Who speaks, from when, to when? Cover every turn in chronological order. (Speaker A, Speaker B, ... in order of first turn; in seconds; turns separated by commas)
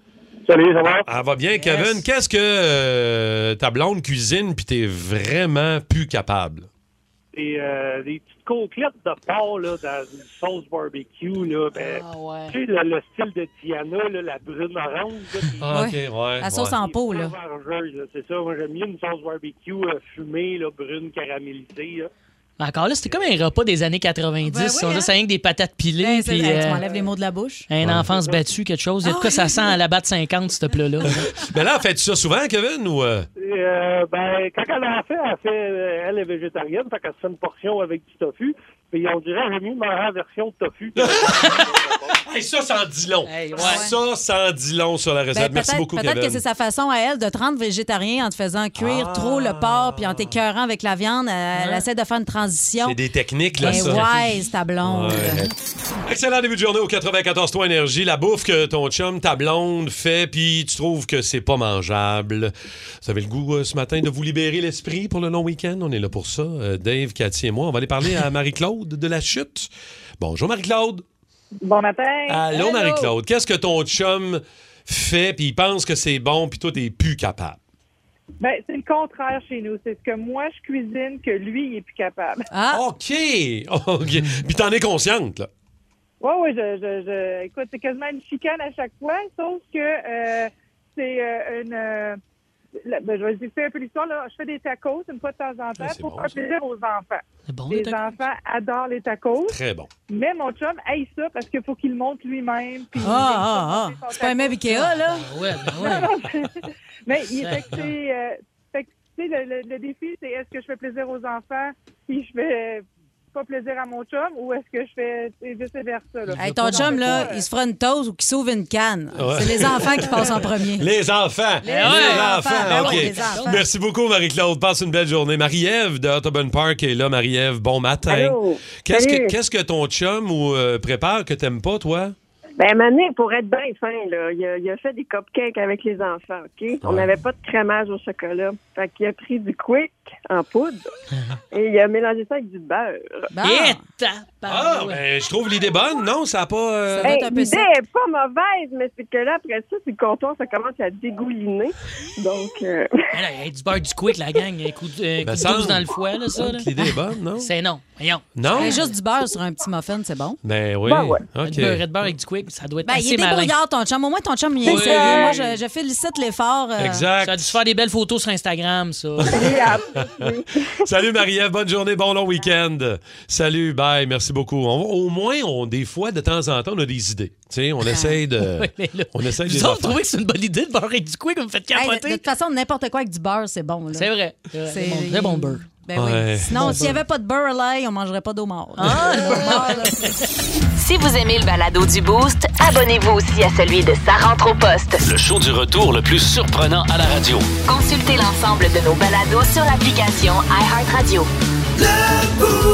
Speaker A: 0.5-1.1, Speaker B: 1.1-6.7, Speaker C: 1.6-2.0, Speaker A: 7.3-15.7, Speaker C: 11.7-12.6, Speaker B: 15.6-16.8, Speaker D: 15.7-17.3, Speaker A: 16.8-22.1, Speaker C: 22.6-26.8, Speaker D: 24.4-25.1, Speaker D: 26.0-27.6, Speaker A: 26.8-27.1, Speaker C: 27.7-31.3, Speaker B: 27.8-28.1, Speaker A: 28.1-28.4, Speaker D: 29.0-29.8, Speaker B: 31.1-33.3, Speaker A: 33.4-41.6, Speaker B: 41.0-41.7, Speaker C: 41.2-41.7, Speaker B: 42.2-46.4, Speaker C: 43.2-43.9, Speaker D: 43.6-43.9, Speaker D: 45.3-53.0, Speaker B: 48.8-50.4, Speaker C: 51.6-51.8, Speaker B: 52.8-54.1, Speaker C: 53.6-54.3, Speaker D: 53.6-55.5, Speaker B: 54.8-55.5, Speaker B: 56.0-62.5, Speaker B: 63.0-71.0, Speaker E: 71.6-72.8, Speaker B: 72.3-77.6, Speaker E: 78.4-82.4, Speaker D: 82.5-82.8, Speaker B: 82.7-85.5, Speaker E: 86.2-92.2, Speaker E: 92.8-99.6, Speaker B: 95.8-96.4, Speaker C: 97.5-98.0, Speaker B: 99.5-99.9, Speaker E: 100.1-104.7, Speaker D: 103.0-105.3, Speaker C: 104.7-106.1, Speaker D: 105.8-106.1, Speaker E: 105.8-117.5, Speaker C: 107.3-107.9, Speaker C: 116.4-117.2, Speaker D: 116.4-120.9, Speaker B: 119.1-132.1, Speaker D: 121.6-123.6, Speaker C: 121.6-123.5, Speaker F: 128.1-129.3, Speaker F: 132.6-140.8, Speaker B: 136.8-137.1, Speaker F: 141.5-143.3, Speaker D: 143.3-143.8, Speaker C: 143.4-145.0, Speaker B: 144.4-147.1, Speaker D: 146.9-147.7, Speaker F: 147.0-152.9, Speaker C: 153.1-156.7, Speaker B: 155.2-157.5, Speaker C: 157.4-158.9, Speaker B: 158.3-158.8, Speaker D: 158.5-160.4, Speaker B: 160.4-161.8, Speaker F: 160.8-161.2, Speaker C: 161.4-163.5, Speaker D: 162.8-167.1, Speaker C: 164.6-165.4, Speaker B: 166.8-167.5, Speaker C: 167.2-169.5, Speaker B: 169.2-180.0, Speaker F: 169.3-170.9, Speaker D: 177.9-178.2, Speaker C: 178.4-182.2, Speaker D: 181.7-184.1, Speaker C: 183.9-185.7, Speaker D: 184.7-190.1, Speaker B: 185.9-187.0, Speaker C: 186.6-187.0, Speaker C: 188.8-190.1, Speaker G: 190.8-195.0, Speaker H: 195.1-197.5, Speaker G: 197.7-201.3